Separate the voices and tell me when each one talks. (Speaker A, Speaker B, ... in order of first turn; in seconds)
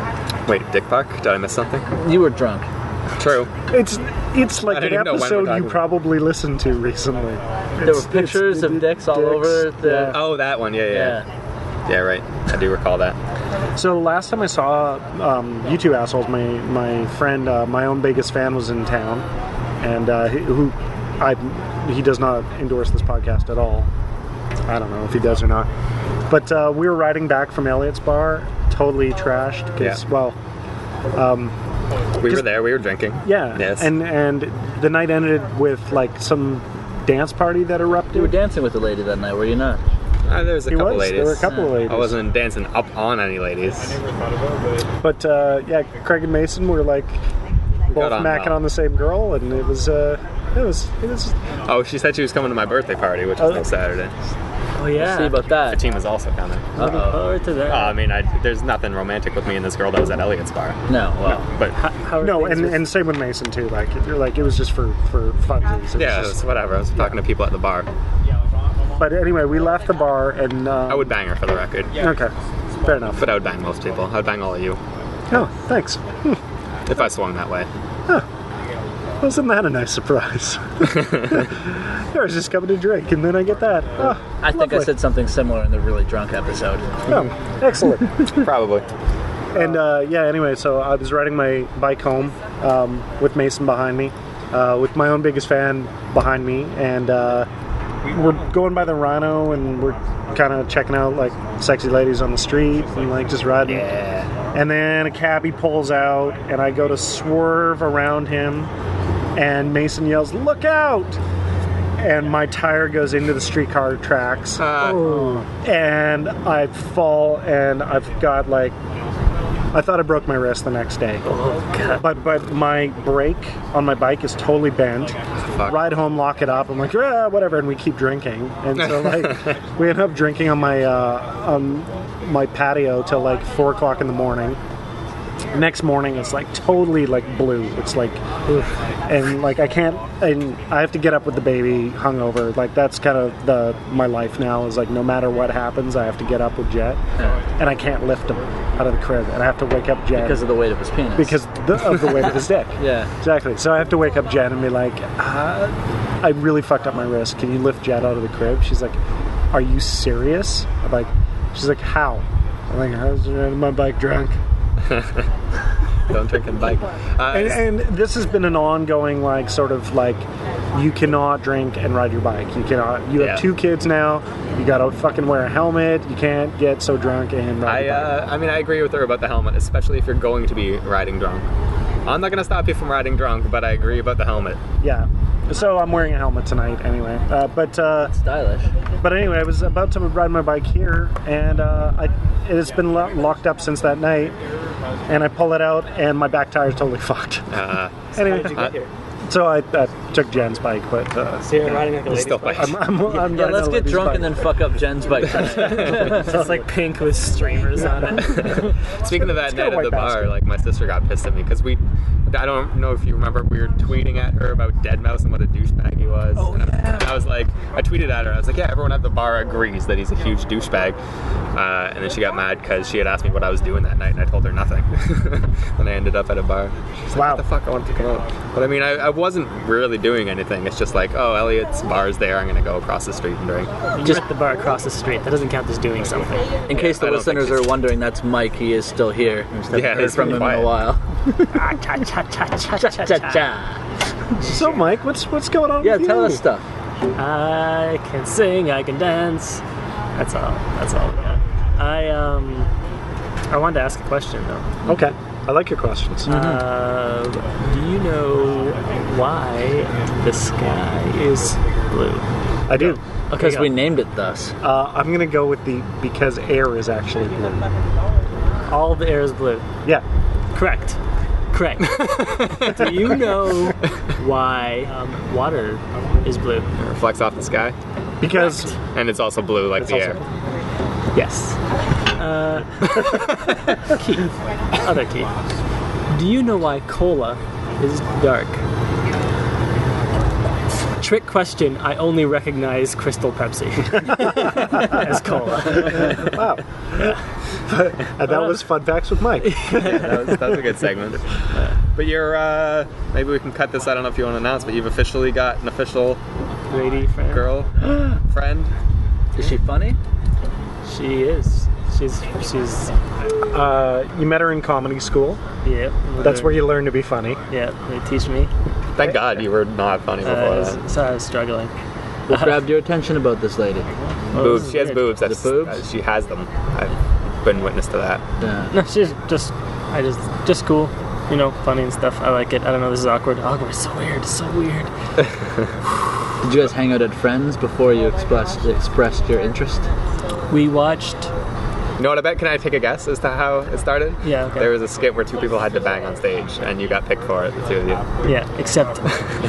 Speaker A: 0.5-1.9, 3.2-3.5, 4.6-5.8, 10.1-11.2, 11.9-13.2, 32.2-33.9, 40.3-44.0, 47.9-48.6, 51.6-54.1, 55.5-61.8, 65.9-67.9, 70.9-72.0, 73.2-74.8, 76.9-77.7, 81.0-81.4, 88.3-88.9, 103.6-104.3, 114.6-115.1, 128.8-129.5, 164.9-165.2, 166.1-167.6, 173.2-173.4, 177.6-181.4, 182.1-184.6, 197.5-198.7, 202.0-202.9, 205.6-206.0, 208.2-221.0, 221.5-233.7, 236.7-237.7, 239.7-240.8, 271.8-273.1, 276.8-277.7, 278.9-280.2, 299.7-301.2, 301.9-306.2, 307.3-307.7, 308.3-308.7, 318.9-320.8, 324.3-328.2, 342.0-348.1
Speaker B: 1.9-2.7, 7.8-10.2, 10.9-11.2, 38.1-39.8, 41.5-41.8, 54.9-55.8, 56.8-57.2, 60.9-61.4, 84.4-87.2, 147.2-147.4, 150.1-151.4, 152.8-153.1, 188.1-188.7, 203.1-206.2, 236.7-241.6, 242.8-243.8, 245.8-246.6, 256.2-256.6, 263.4-264.5, 309.4-310.0, 322.3-323.9, 325.2-325.8, 328.4-328.7, 336.4-339.9
Speaker C: 3.7-10.2, 13.8-19.3, 19.8-23.9, 24.7-25.7, 26.3-30.4, 31.1-31.5, 32.3-32.6, 33.2-38.3, 40.7-42.2, 45.0-47.2, 47.9-51.4, 62.2-66.4, 69.0-71.1, 72.0-73.2, 75.3-76.4, 79.2-84.9, 87.1-88.2, 89.5-97.5, 98.0-104.0, 104.5-108.7, 109.3-111.2, 112.0-118.7, 119.7-121.3, 122.0-134.6, 135.5-138.4, 139.1-147.0, 147.6-150.5, 151.2-159.0, 159.5-164.4, 167.3-178.2, 184.8-188.1, 189.0-194.4, 195.1-197.5, 198.1-198.7, 199.3-202.0, 202.6-204.5, 206.0-206.6, 209.0-210.3, 227.1-227.4, 244.4-246.4, 254.8-256.3, 262.7-263.0, 264.6-267.7, 278.2-278.7, 296.2-297.1, 297.7-299.8, 313.5-315.4, 316.2-317.4
Speaker D: 54.8-55.4, 56.8-58.0, 61.8-62.9, 114.9-115.4, 121.2-122.0, 198.2-198.9, 201.4-202.8, 205.7-208.6, 234.0-236.5, 241.5-243.5, 244.4-244.9, 247.2-249.6, 250.1-252.7, 253.5-254.7, 256.3-263.7, 268.7-269.7, 270.5-271.0, 271.5-272.1, 272.6-276.7, 281.1-281.6, 282.1-283.0, 283.9-285.3, 286.1-288.6, 291.0-296.3, 298.3-298.5, 299.4-300.6, 306.7-307.4, 310.9-312.9, 315.6-316.8, 317.5-318.5, 320.2-321.7, 322.3-322.6, 324.3-325.1, 328.7-334.9, 340.5-341.3, 344.2-344.7, 348.2-349.1